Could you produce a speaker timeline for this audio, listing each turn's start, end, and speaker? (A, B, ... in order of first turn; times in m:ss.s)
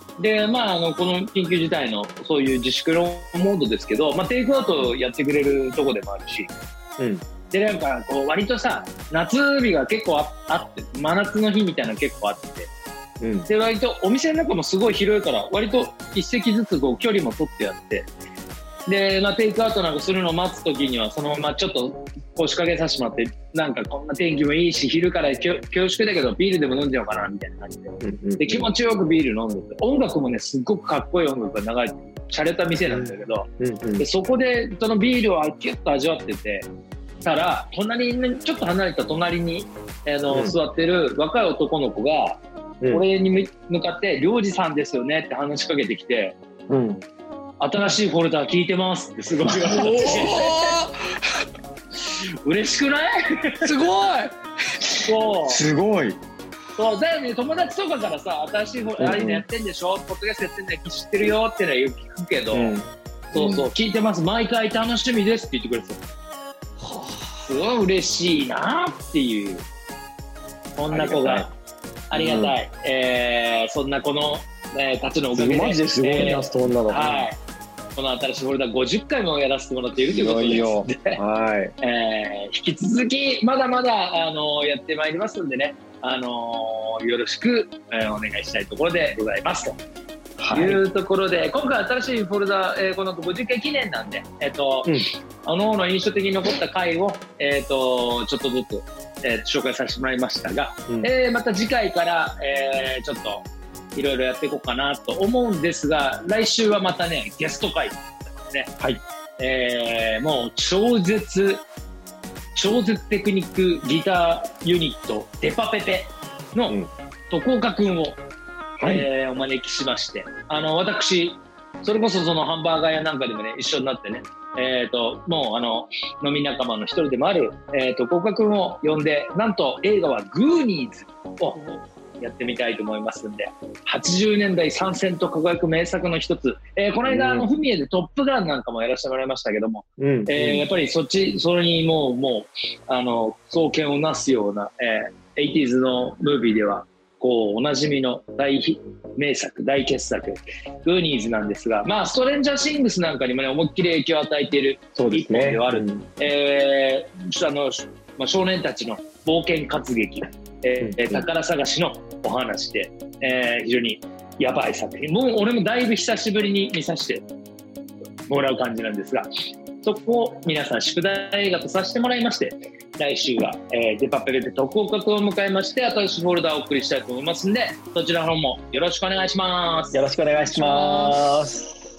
0:00.2-0:06.5 A
0:07.0-0:07.2 B
0:07.5-0:12.7 A
0:13.2-0:13.5 B
0:13.4-0:18.1 A
0:18.8-0:36.7 A
0:28.0-0:28.7 B
0:32.8-0:34.0 B
0:37.2-0:46.4 A
0:40.3-0:40.5 B
0:46.7-0:47.0 B
0:47.6-0:50.8 A
0:49.5-0:50.1 B
0:49.7-0:51.1 C
0:52.0-0:53.8 A
0:53.6-0:54.3 C
0:54.9-0:55.6 A
0:55.4-0:56.2 B
0:56.8-1:02.8 A
0:59.0-0:59.4 B
1:02.5-1:03.5 B
1:03.3-1:06.0 A
1:06.8-1:07.4 C
1:07.5-1:09.6 A
1:10.8-1:11.5 A
1:10.9-1:11.5 B
1:12.1-1:17.4 A
1:12.1-1:12.6 B
1:15.3-1:17.3 B
1:17.9-1:21.2 A
1:20.0-1:21.7 B
1:21.8-1:29.8 A
1:30.4-1:30.8 B
1:30.5-1:48.7 A
1:49.4-1:51.6 A
1:52.5-1:56.8 A
1:57.3-1:58.2 A
1:58.8-1:59.0 B
1:58.8-2:47.2 A
2:17.1-2:17.5 B
2:20.0-2:20.6 B
2:35.0-2:36.0 B
2:40.8-2:41.2 B
2:48.3-2:49.3 A
2:49.8-3:00.0 A
2:59.9-3:01.7 B